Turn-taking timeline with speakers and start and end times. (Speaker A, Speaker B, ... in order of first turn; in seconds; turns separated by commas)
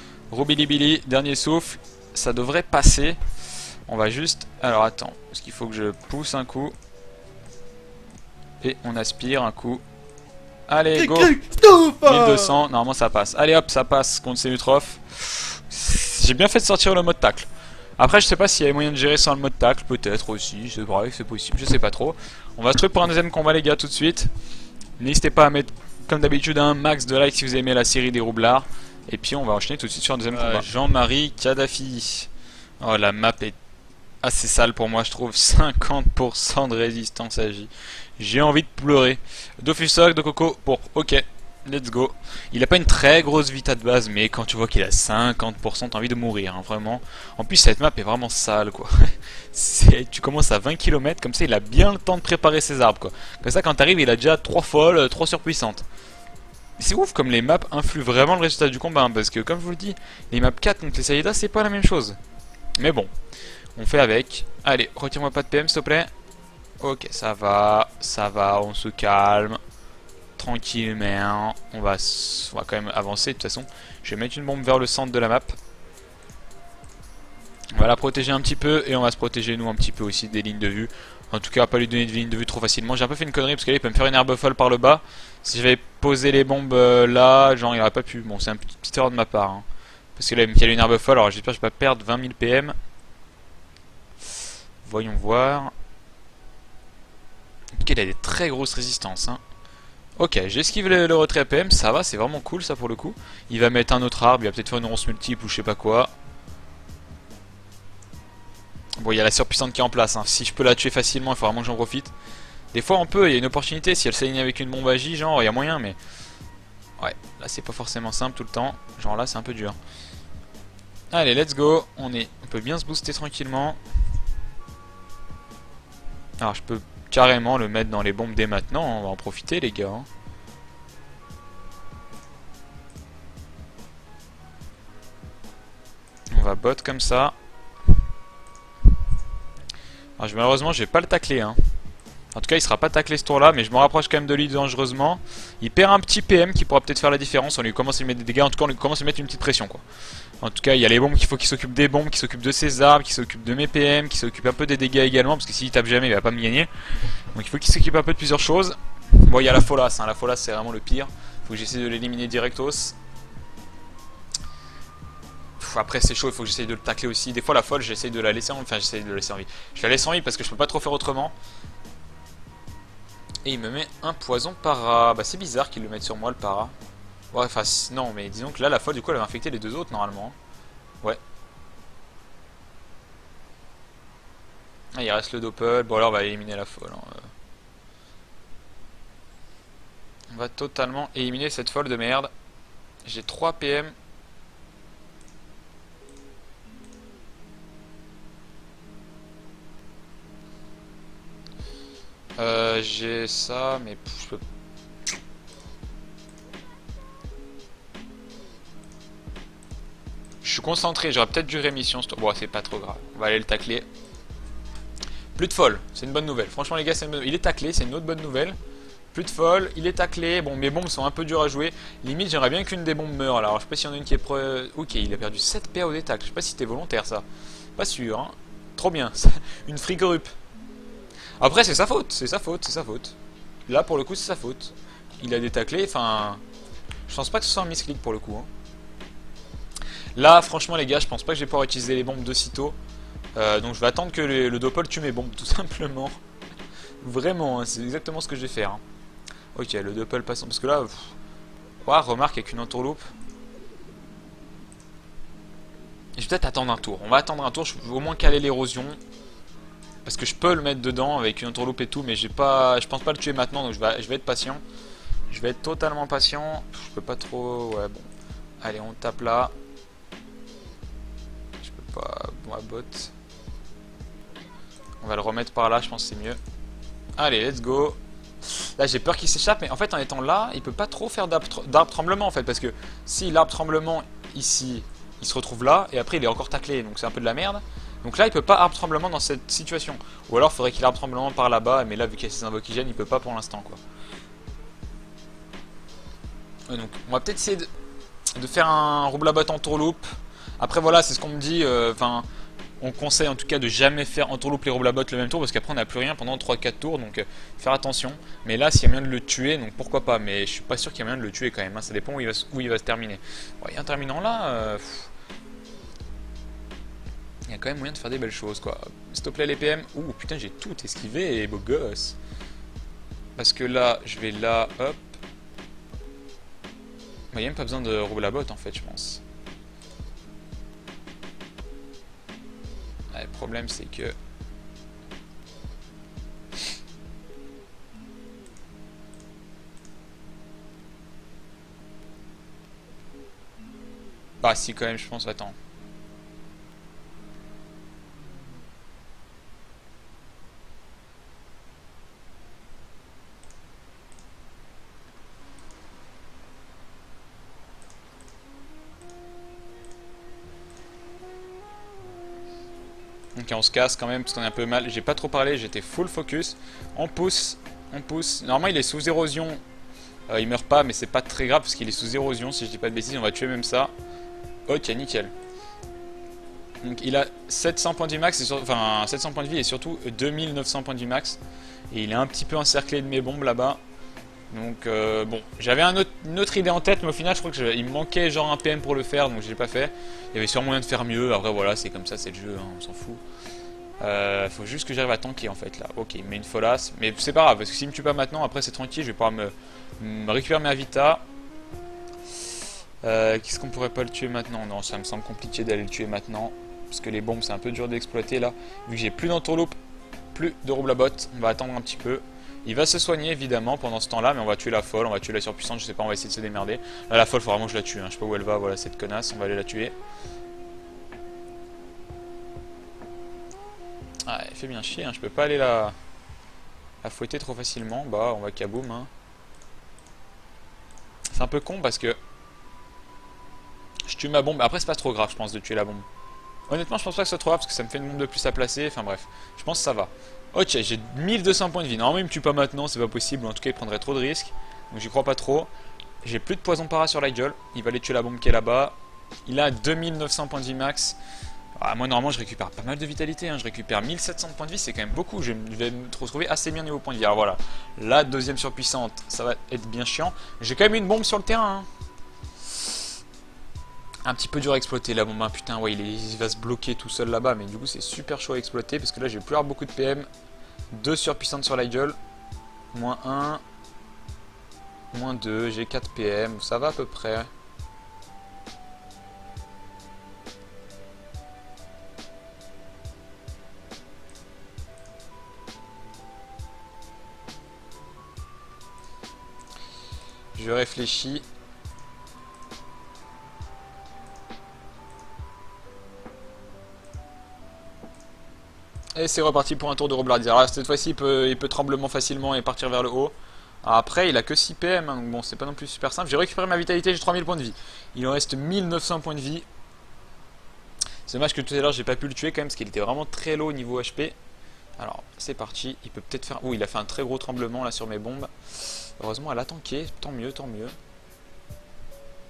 Speaker A: 0.3-3.2, Speaker A: 3.9-6.7, Speaker A: 8.6-9.8, Speaker A: 10.7-24.3, Speaker A: 25.0-32.3, Speaker A: 32.8-33.6, Speaker A: 34.2-55.9, Speaker A: 56.8-62.2, Speaker A: 62.8-63.1, Speaker A: 63.8-66.1, Speaker A: 66.8-69.6, Speaker A: 70.4-75.6, Speaker A: 77.8-89.7, Speaker A: 90.2-92.8, Speaker A: 94.8-95.7, Speaker A: 97.8-99.4, Speaker A: 100.2-106.1, Speaker A: 109.0-112.1, Speaker A: 112.7-116.0, Speaker A: 117.0-119.8, Speaker A: 121.1-123.8, Speaker A: 126.4-130.1, Speaker A: 136.3-137.3, Speaker A: 140.2-141.6, Speaker A: 142.3-149.8, Speaker A: 150.4-156.7, Speaker A: 157.3-163.0, Speaker A: 165.6-171.3, Speaker A: 173.4-176.7, Speaker A: 177.3-180.4, Speaker A: 184.9-187.3, Speaker A: 190.3-192.3, Speaker A: 193.1-193.9, Speaker A: 202.4-204.4, Speaker A: 210.4-213.9, Speaker A: 215.4-218.6, Speaker A: 219.1-227.2, Speaker A: 227.8-230.3, Speaker A: 231.4-233.2, Speaker A: 233.7-236.4, Speaker A: 237.1-238.5, Speaker A: 240.2-242.8, Speaker A: 243.4-246.2, Speaker A: 247.0-248.8, Speaker A: 249.6-251.1, Speaker A: 251.8-253.0, Speaker A: 256.2-259.0, Speaker A: 260.1-264.6, Speaker A: 265.3-268.1, Speaker A: 268.6-269.5, Speaker A: 271.6-273.1, Speaker A: 275.0-276.4, Speaker A: 277.2-293.8, Speaker A: 296.7-297.7, Speaker A: 298.4-300.1, Speaker A: 300.6-302.3, Speaker A: 302.8-315.1, Speaker A: 317.5-322.2, Speaker A: 323.4-325.2, Speaker A: 327.3-329.2, Speaker A: 333.1-334.1, Speaker A: 344.4-345.6, Speaker A: 363.4-369.6, Speaker A: 370.3-373.9, Speaker A: 374.7-375.3, Speaker A: 376.8-381.4, Speaker A: 381.9-383.8, Speaker A: 384.5-393.2, Speaker A: 394.0-401.2, Speaker A: 403.0-409.8, Speaker A: 410.3-419.9, Speaker A: 424.3-425.9, Speaker A: 427.0-429.1, Speaker A: 431.3-432.2, Speaker A: 434.1-436.1, Speaker A: 436.7-445.7, Speaker A: 446.2-451.2, Speaker A: 451.8-461.9, Speaker A: 464.3-470.3, Speaker A: 470.9-472.2, Speaker A: 472.9-473.6, Speaker A: 475.1-477.5, Speaker A: 490.6-491.4, Speaker A: 499.1-509.6, Speaker A: 511.3-514.4, Speaker A: 515.0-521.0